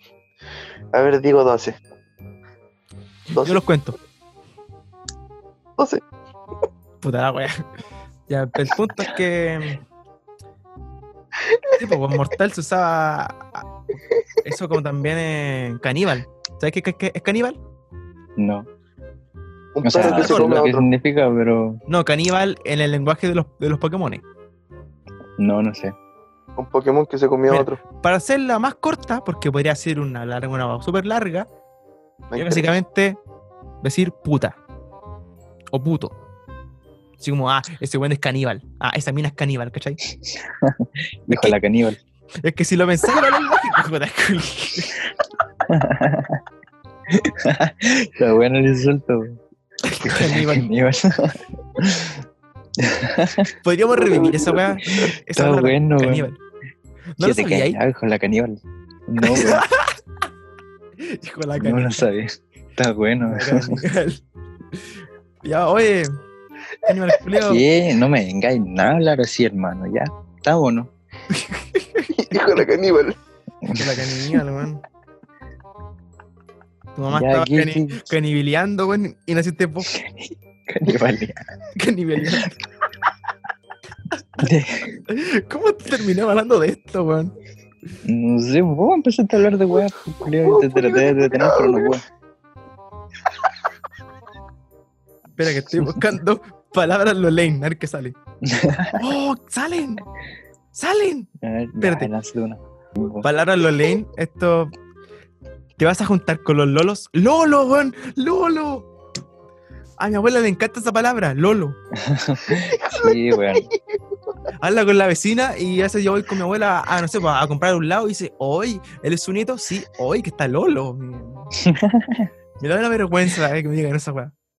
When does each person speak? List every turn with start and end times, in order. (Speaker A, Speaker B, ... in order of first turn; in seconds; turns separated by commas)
Speaker A: 0.9-1.8, Speaker B: 3.3-4.0, Speaker A: 3.3-3.6, Speaker B: 7.0-7.7, Speaker B: 8.3-9.8, Speaker A: 11.5-11.8, Speaker B: 11.7-13.7, Speaker B: 14.4-17.6, Speaker C: 18.4-18.7, Speaker A: 19.7-20.9, Speaker C: 19.8-21.8, Speaker B: 20.0-20.6, Speaker B: 21.9-24.2, Speaker C: 25.4-25.9, Speaker A: 26.6-27.8, Speaker B: 27.5-31.5, Speaker A: 32.3-32.7, Speaker B: 32.3-33.2, Speaker B: 33.8-34.6, Speaker B: 35.7-36.1, Speaker B: 37.2-40.0, Speaker C: 40.3-42.0, Speaker B: 41.3-41.5, Speaker B: 42.4-45.0, Speaker C: 45.6-46.4, Speaker C: 47.1-49.4, Speaker B: 49.8-50.6, Speaker C: 50.0-52.2, Speaker C: 52.8-53.5, Speaker B: 53.6-56.4, Speaker A: 54.0-55.0, Speaker C: 55.3-56.3, Speaker B: 57.2-57.8, Speaker C: 57.2-59.7, Speaker B: 59.2-60.0, Speaker B: 61.0-62.0, Speaker C: 61.6-63.8, Speaker B: 63.2-64.2, Speaker B: 65.4-66.1, Speaker B: 66.8-67.6, Speaker C: 67.4-70.9, Speaker B: 71.3-72.1, Speaker A: 72.1-73.2, Speaker C: 73.7-74.0, Speaker B: 73.7-74.8, Speaker B: 76.9-79.9, Speaker C: 77.1-78.1, Speaker C: 79.9-81.5, Speaker B: 81.8-82.6, Speaker C: 84.4-85.0, Speaker B: 85.1-87.3, Speaker C: 88.0-92.0, Speaker A: 90.4-92.0, Speaker B: 95.4-98.1, Speaker C: 98.4-99.0, Speaker B: 99.0-100.0, Speaker B: 100.7-101.3, Speaker C: 101.4-103.3, Speaker B: 101.8-102.1, Speaker B: 103.2-104.7, Speaker B: 105.8-108.9, Speaker B: 110.0-111.8, Speaker C: 111.9-113.7, Speaker A: 112.5-114.0, Speaker B: 114.6-121.5, Speaker C: 121.6-122.3, Speaker B: 122.6-124.3